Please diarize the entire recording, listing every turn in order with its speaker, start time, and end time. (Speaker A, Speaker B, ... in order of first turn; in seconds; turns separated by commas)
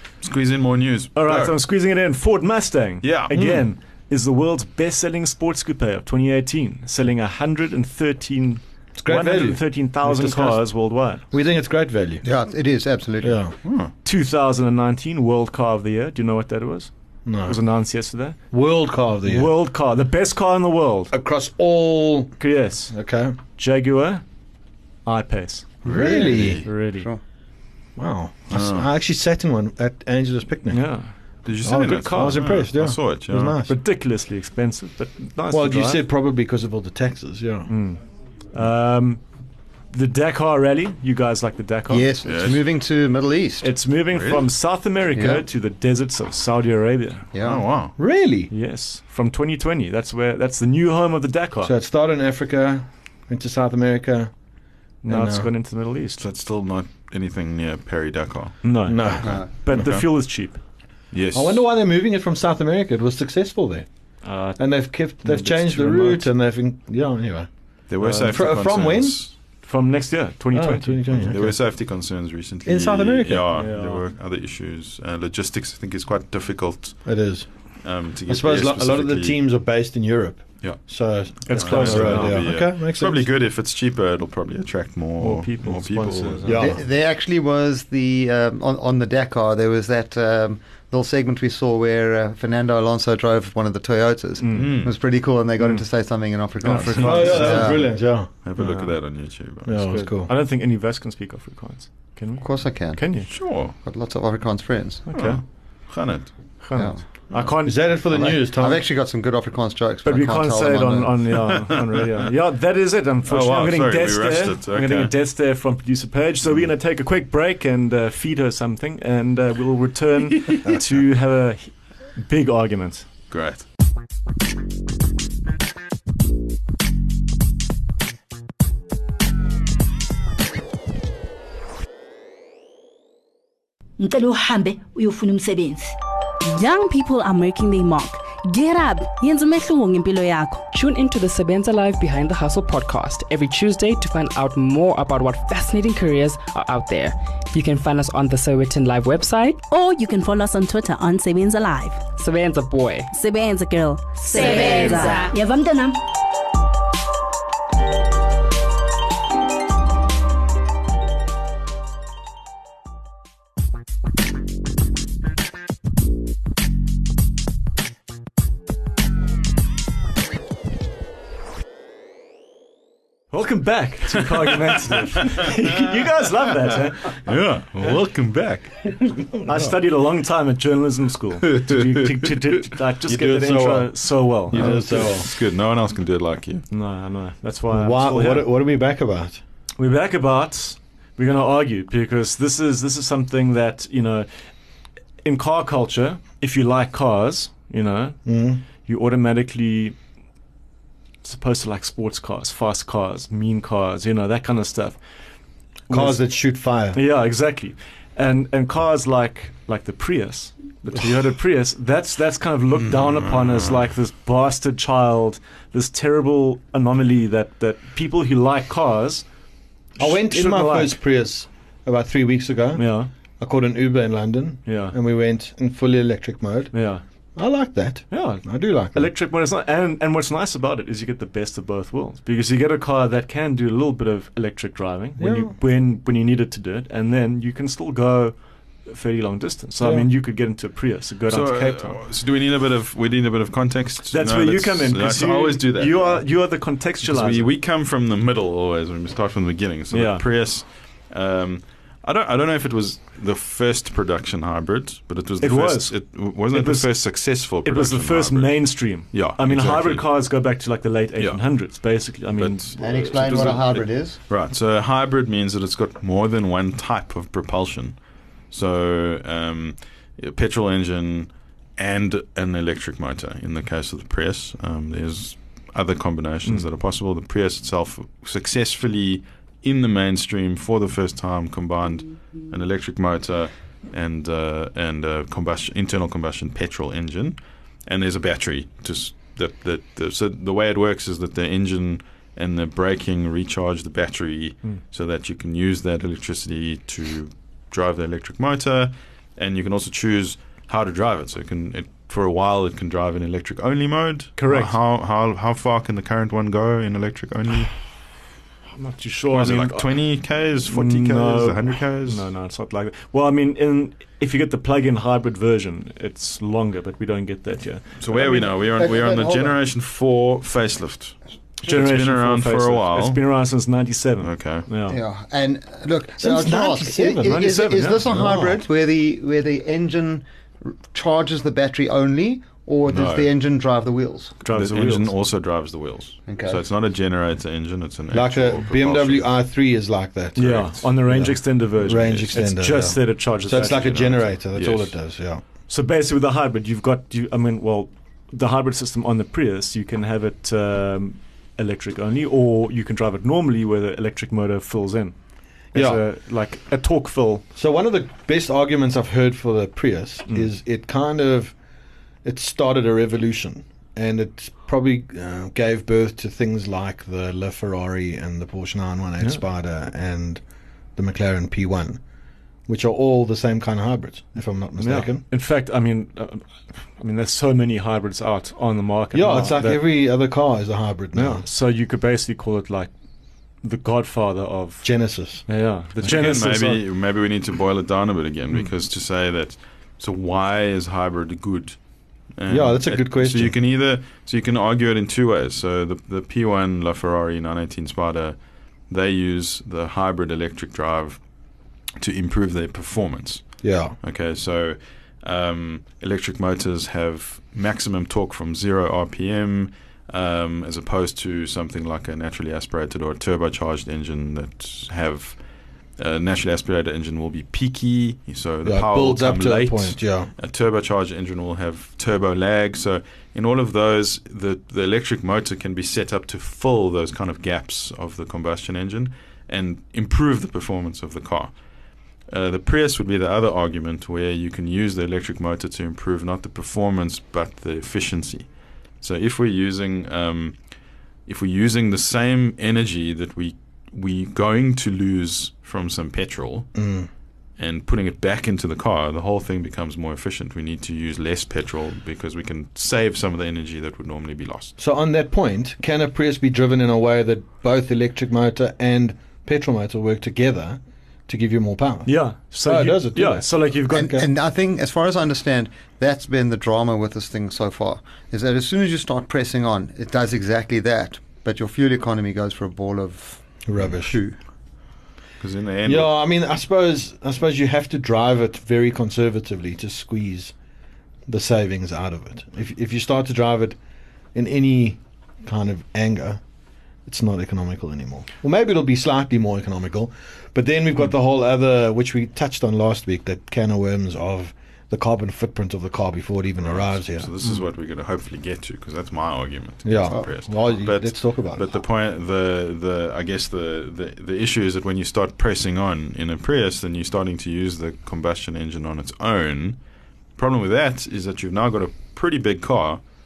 Speaker A: 0.2-1.6, Speaker B: 1.1-11.2, Speaker A: 3.0-3.5, Speaker C: 3.3-3.6, Speaker C: 9.0-10.6, Speaker C: 11.3-12.2, Speaker D: 12.2-13.4, Speaker C: 13.2-13.5, Speaker A: 13.6-13.9, Speaker B: 14.0-16.9, Speaker C: 17.3-17.6, Speaker B: 17.4-18.4, Speaker C: 18.5-19.5, Speaker B: 19.3-21.1, Speaker C: 21.1-22.4, Speaker B: 22.4-22.9, Speaker C: 22.9-23.4, Speaker B: 23.6-24.2, Speaker B: 25.1-25.8, Speaker C: 25.8-26.7, Speaker A: 25.8-26.7, Speaker B: 26.6-27.1, Speaker C: 28.0-30.9, Speaker A: 28.5-28.9, Speaker B: 30.7-31.1, Speaker A: 31.4-33.6, Speaker C: 31.6-33.8, Speaker B: 31.7-32.5, Speaker B: 33.7-36.0, Speaker C: 35.5-37.7, Speaker B: 37.7-38.0, Speaker B: 38.5-39.2, Speaker B: 39.9-42.1, Speaker D: 41.9-43.7, Speaker A: 42.2-42.6, Speaker B: 43.6-47.2, Speaker A: 44.1-44.5, Speaker D: 45.1-45.4, Speaker D: 47.3-47.6, Speaker A: 47.4-48.0, Speaker C: 48.0-48.5, Speaker B: 48.5-51.7, Speaker C: 51.6-54.3, Speaker B: 55.0-56.2, Speaker C: 55.1-55.5, Speaker A: 56.2-58.6, Speaker B: 58.6-60.6, Speaker C: 58.9-59.8, Speaker A: 59.2-60.0, Speaker A: 61.1-61.6, Speaker C: 61.3-63.9, Speaker B: 64.2-66.3, Speaker C: 64.6-67.5, Speaker A: 67.9-69.3, Speaker B: 68.0-68.4, Speaker C: 68.1-69.2, Speaker B: 69.6-71.3, Speaker C: 70.5-71.6, Speaker A: 71.2-77.1, Speaker C: 72.7-73.5, Speaker B: 73.5-74.0, Speaker C: 77.1-77.5, Speaker A: 77.8-79.4, Speaker C: 78.3-83.3, Speaker A: 81.4-86.6, Speaker B: 81.5-82.5, Speaker B: 85.2-86.7, Speaker C: 86.4-86.8, Speaker D: 86.5-97.9, Speaker B: 94.4-94.8, Speaker A: 94.5-94.9, Speaker B: 95.6-95.8, Speaker B: 96.6-97.8, Speaker C: 97.0-98.3, Speaker A: 97.1-97.5, Speaker A: 98.4-99.9, Speaker B: 98.6-98.9, Speaker C: 99.7-100.3, Speaker B: 99.8-103.3, Speaker D: 102.4-103.2, Speaker A: 103.3-103.8, Speaker D: 103.8-105.0, Speaker B: 105.1-105.4, Speaker A: 105.1-106.3, Speaker B: 106.6-107.9, Speaker D: 106.8-107.0, Speaker C: 107.6-108.8, Speaker D: 108.1-111.2, Speaker B: 110.0-123.1, Speaker A: 113.3-115.1, Speaker A: 123.3-123.7, Speaker E: 134.0-135.9, Speaker F: 136.4-140.7, Speaker G: 140.7-149.6, Speaker F: 149.7-152.1, Speaker G: 152.1-153.1, Speaker F: 153.1-155.3, Speaker E: 155.2-156.0, Speaker B: 173.3-177.2, Speaker A: 177.2-179.7, Speaker B: 179.5-185.1, Speaker A: 181.5-182.1, Speaker C: 183.1-185.3, Speaker A: 184.5-186.7, Speaker B: 186.7-188.5, Speaker C: 187.7-189.4, Speaker B: 189.8-194.3, Speaker B: 195.2-198.2, Speaker C: 198.2-198.6, Speaker B: 198.8-200.0, Speaker B: 201.2-205.0, Speaker B: 205.9-206.2, Speaker C: 205.9-207.0, Speaker B: 206.9-219.2, Speaker A: 212.8-213.8, Speaker C: 220.0-222.8, Speaker B: 220.0-221.0, Speaker B: 222.8-223.1, Speaker C: 223.4-226.7, Speaker B: 224.7-224.9, Speaker B: 226.7-227.0, Speaker C: 227.4-229.1, Speaker B: 228.1-242.0, Speaker C: 235.2-235.5, Speaker C: 239.8-240.1, Speaker A: 241.3-246.3, Speaker B: 244.1-247.5, Speaker A: 247.0-260.1, Speaker B: 249.9-250.2, Speaker B: 255.4-257.1, Speaker B: 257.6-263.8, Speaker A: 261.2-261.5, Speaker A: 262.4-268.0, Speaker D: 262.8-264.2, Speaker A: 268.5-307.7, Speaker B: 304.4-304.7, Speaker B: 308.8-309.9, Speaker A: 309.3-312.2, Speaker B: 310.7-317.8, Speaker A: 318.0-323.2, Speaker D: 318.1-319.6, Speaker B: 321.6-325.0, Speaker A: 324.2-324.7, Speaker D: 324.9-334.4, Speaker C: 326.2-328.6, Speaker B: 327.2-328.0, Speaker A: 332.9-333.3, Speaker B: 334.4-335.1, Speaker A: 334.5-339.3, Speaker D: 336.3-336.6, Speaker C: 338.1-345.4, Speaker B: 340.4-344.3, Speaker A: 343.9-344.9, Speaker B: 345.7-355.2, Speaker B: 355.7-357.4, Speaker C: 355.7-356.0, Speaker C: 357.6-361.5, Speaker C: 362.2-370.4, Speaker C: 371.0-372.0, Speaker C: 372.7-375.2, Speaker B: 374.8-379.8, Speaker C: 379.1-381.4, Speaker B: 381.1-382.9, Speaker B: 383.6-384.9, Speaker C: 384.8-385.4, Speaker B: 385.5-386.8, Speaker A: 386.0-391.8, Speaker A: 392.4-398.4, Speaker C: 392.5-393.6, Speaker A: 398.9-401.2, Speaker A: 402.0-415.4, Speaker C: 403.6-403.9, Speaker A: 416.0-431.5, Speaker C: 418.6-420.3, Speaker A: 432.3-438.5, Speaker A: 439.0-440.6, Speaker A: 441.3-446.7, Speaker C: 446.8-447.1, Speaker A: 447.6-454.8, Speaker C: 454.8-464.3, Speaker B: 462.1-464.1, Speaker D: 463.9-474.4, Speaker C: 473.6-474.2, Speaker A: 475.4-476.1, Speaker C: 475.9-480.5, Speaker C: 481.3-483.8, Speaker C: 484.3-486.4, Speaker C: 487.1-497.3, Speaker A: 496.6-509.8, Speaker C: 499.9-501.6, Speaker A: 510.4-513.0